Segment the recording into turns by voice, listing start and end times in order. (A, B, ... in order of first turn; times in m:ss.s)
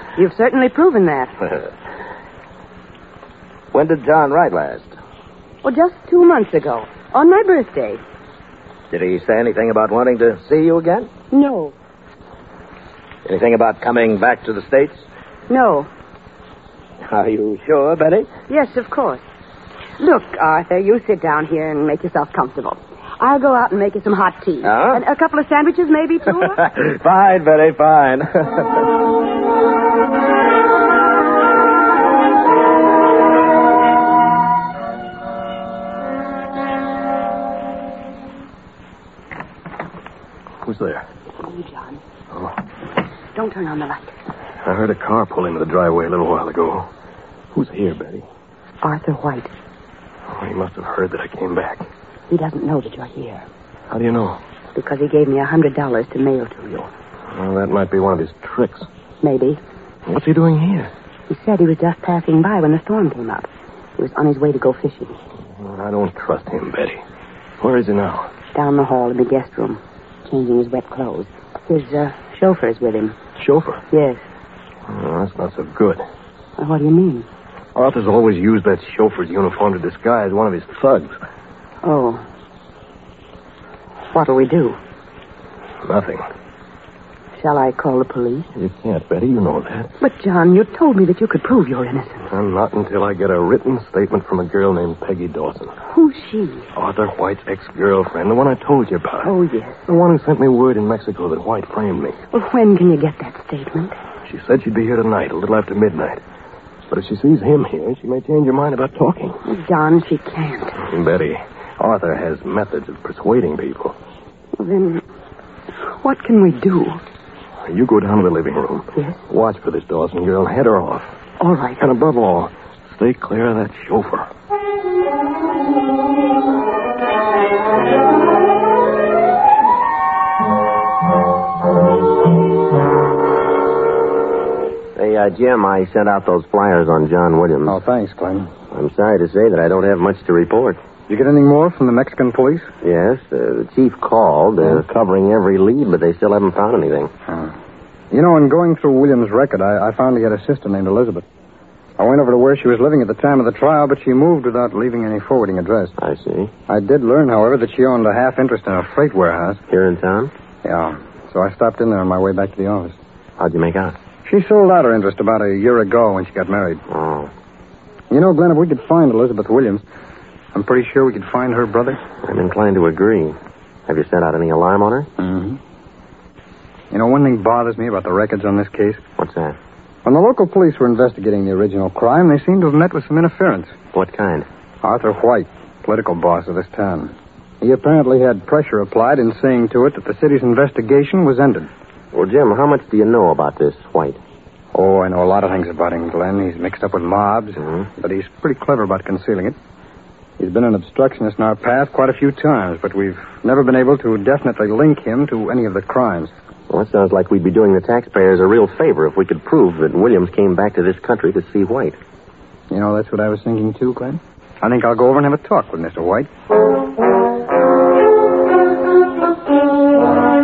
0:00.2-0:01.4 A
0:03.7-0:05.0 B
0:05.6-0:08.0 A
0:08.9-0:11.1 B
0:11.3-0:11.7 A
0:13.2-0:15.0 B
0:15.5-0:15.9 A
0:17.1-0:18.3 B
0:18.5-0:19.2 A
0:20.0-0:26.6 A
0:24.6-0:25.0 B
0:26.5-0:28.8 B
0:40.6-0:41.0 C
0:41.4-0:42.0 A
0:43.3-0:44.1 A
0:44.6-0:46.9 C
0:47.5-0:48.2 C
0:48.8-0:49.5 A
0:50.3-0:51.8 C
0:52.3-0:53.4 A
0:53.9-0:54.4 C
0:54.7-0:56.9 A
0:57.3-0:58.9 C
0:59.2-0:59.6 A
1:00.1-1:00.9 C
1:01.3-1:05.2 A
1:05.5-1:07.0 C
1:07.6-1:08.3 C
1:08.5-1:13.2 A
1:13.4-1:13.8 C
1:13.9-1:14.2 A
1:14.9-1:16.0 C
1:16.6-1:17.2 A
1:17.7-1:21.2 C
1:21.8-1:22.2 A
1:24.1-1:24.8 A
1:25.8-1:26.2 C
1:27.4-1:28.5 A
1:28.6-1:29.9 C
1:30.0-1:32.3 A
1:32.3-1:35.7 C
1:35.9-1:36.7 A
1:36.7-1:39.3 C
1:39.2-1:39.8 A
1:39.9-1:42.2 C
1:42.3-1:43.9 A
1:44.2-1:46.2 C
1:46.9-1:49.4 C
1:49.4-1:50.8 A
1:50.8-1:54.0 C
1:54.6-1:55.0 A
1:55.9-1:57.0 A
1:57.6-2:01.1 C
2:01.4-2:01.8 A
2:01.8-2:04.3 C
2:15.0-2:17.8 D
2:17.7-2:18.5 E
2:18.7-2:20.8 D
2:21.1-2:22.7 E
2:22.8-2:27.1 D
2:27.3-2:27.5 E
2:28.1-2:31.2 E
2:32.0-2:35.9 E
2:36.0-2:36.5 D
2:36.7-2:39.6 E
2:39.7-2:40.3 D
2:40.6-2:43.0 E
2:43.4-2:44.0 D
2:44.2-2:46.8 E
2:46.9-2:47.3 D
2:48.1-2:49.8 E
2:50.5-2:52.0 E
2:52.2-2:55.1 D
2:55.2-2:55.6 E
2:56.9-2:59.0 E
2:59.2-2:59.6 D
3:00.0-3:03.8 E
3:03.9-3:04.5 D
3:04.8-3:11.7 E
3:12.1-3:14.2 D
3:14.7-3:19.6 E
3:20.4-3:26.3 E
3:26.7-3:32.0 D
3:32.7-3:36.3 E